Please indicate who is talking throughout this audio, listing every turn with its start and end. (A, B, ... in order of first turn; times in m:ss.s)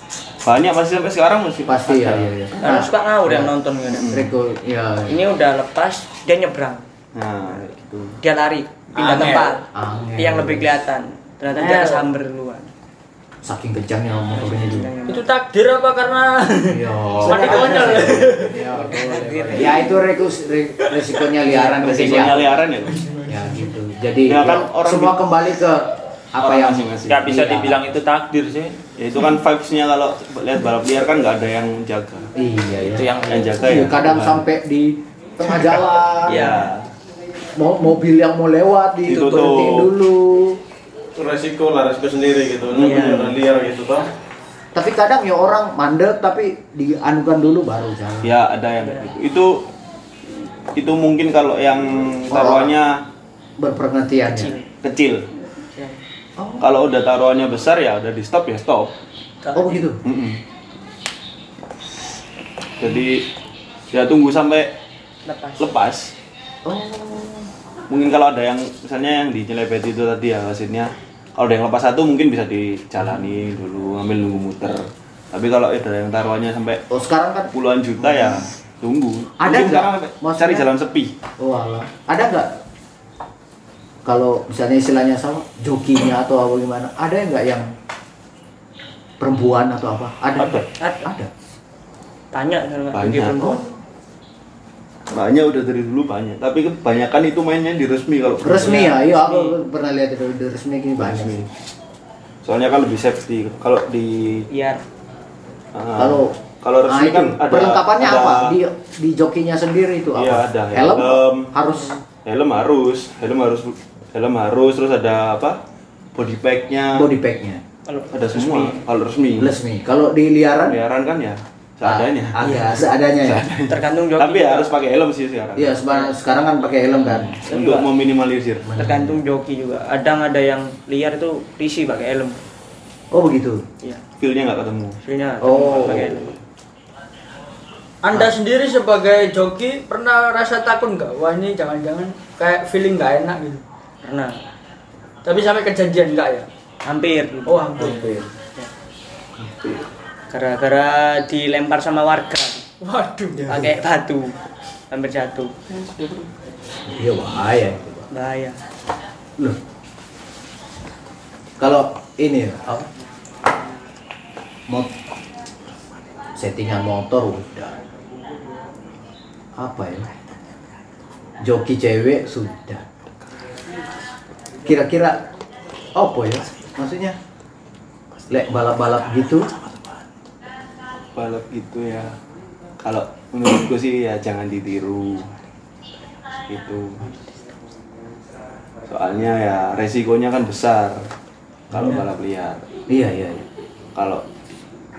0:00.4-0:02.3 A
0:01.7-0:03.5 B
0:02.6-0:04.1 C
0:03.9-0:04.3 A
0:04.1-0:05.2 B
0:05.1-0:06.8 C
0:07.1-0:08.2 A
0:08.2-0:09.6 C
0:09.0-0:09.6 D
0:09.7-0:10.8 B
0:10.2-0:12.7 C
0:11.5-0:12.1 D
0:13.4-0:14.9 B
0:14.3-0:15.3 C
0:15.1-0:19.1 D
0:16.7-0:22.5 B
0:17.3-0:18.3 C
0:18.9-0:20.0 C
0:21.7-0:23.0 A
0:22.8-0:23.7 D
0:23.3-0:27.8 B
0:24.2-0:25.2 A
0:26.4-0:27.4 A
0:27.1-0:28.8 E
0:29.0-0:32.3 A
0:32.4-0:36.6 B
0:32.9-0:33.7 E
0:33.3-0:34.4 A
0:36.2-0:36.9 A
0:36.3-0:36.7 C
0:37.6-0:40.6 B
0:39.1-0:39.9 A
0:41.2-0:44.1 F
0:42.7-0:43.4 A
0:42.8-0:43.3 C
0:44.7-0:48.4 B
0:48.2-0:49.6 A
0:48.8-0:49.1 C
0:50.8-0:53.0 A
0:52.3-0:52.8 B
0:53.6-0:54.5 B
0:54.2-0:54.7 C
0:54.8-0:55.3 A
0:56.4-0:56.6 B
0:56.6-0:58.9 A
0:59.4-0:59.8 C
0:59.5-1:00.0 B
1:00.0-1:00.4 A
1:02.8-1:03.3 A
1:03.9-1:04.7 A
1:05.2-1:05.8 C
1:05.6-1:06.1 A
1:06.7-1:07.5 B
1:07.9-1:16.8 A
1:16.9-1:18.4 B
1:17.5-1:21.1 A
1:19.4-1:20.7 B
1:21.4-1:22.6 B
1:24.0-1:27.7 B
1:29.2-1:31.3 B
1:30.8-1:31.1 C
1:32.3-1:33.6 C
1:32.9-1:33.5 A
1:35.1-1:39.0 A
1:38.4-1:41.4 B
1:38.6-1:39.6 C
1:41.0-1:41.5 A
1:42.4-1:44.5 A
1:44.5-1:44.8 C
1:45.7-1:48.6 A
1:46.0-1:46.4 B
1:46.9-1:52.0 B
1:50.1-1:51.5 A
1:52.2-1:55.6 A
1:56.1-1:57.1 A
1:56.9-1:57.6 B
1:57.9-1:58.8 C
1:58.1-1:59.5 A
1:59.4-2:00.8 B
2:00.7-2:02.4 A
2:01.8-2:03.5 B
2:02.4-2:02.8 C
2:03.2-2:05.8 A
2:03.7-2:04.8 C
2:05.6-2:07.5 B
2:07.1-2:08.7 A
2:07.5-2:07.9 C
2:08.7-2:09.2 B
2:08.8-2:12.4 C
2:13.1-2:13.6 B
2:14.2-2:15.0 A
2:15.0-2:16.4 C
2:15.4-2:16.1 B
2:15.7-2:16.0 A
2:18.0-2:23.6 D
2:24.0-2:24.4 C
2:25.2-2:26.5 D
2:26.8-2:28.7 C
2:27.7-2:28.1 D
2:29.4-2:29.8 A
2:30.3-2:32.7 C
2:32.8-2:33.6 D
2:33.5-2:34.4 C
2:34.9-2:35.6 C
2:35.7-2:36.3 A
2:36.9-2:38.1 B
2:38.1-2:38.6 C
2:41.6-2:42.9 B
2:46.4-2:47.8 B
2:49.6-2:50.1 B
2:51.4-2:52.8 B
2:54.6-2:55.2 B
2:56.0-2:57.2 B
2:58.3-2:59.5 B
3:01.2-3:02.2 A
3:02.8-3:05.3 A
3:06.5-3:07.0 A
3:08.9-3:11.0 A
3:11.7-3:12.6 A
3:11.7-3:12.1 B
3:12.9-3:13.5 B
3:14.0-3:14.2 A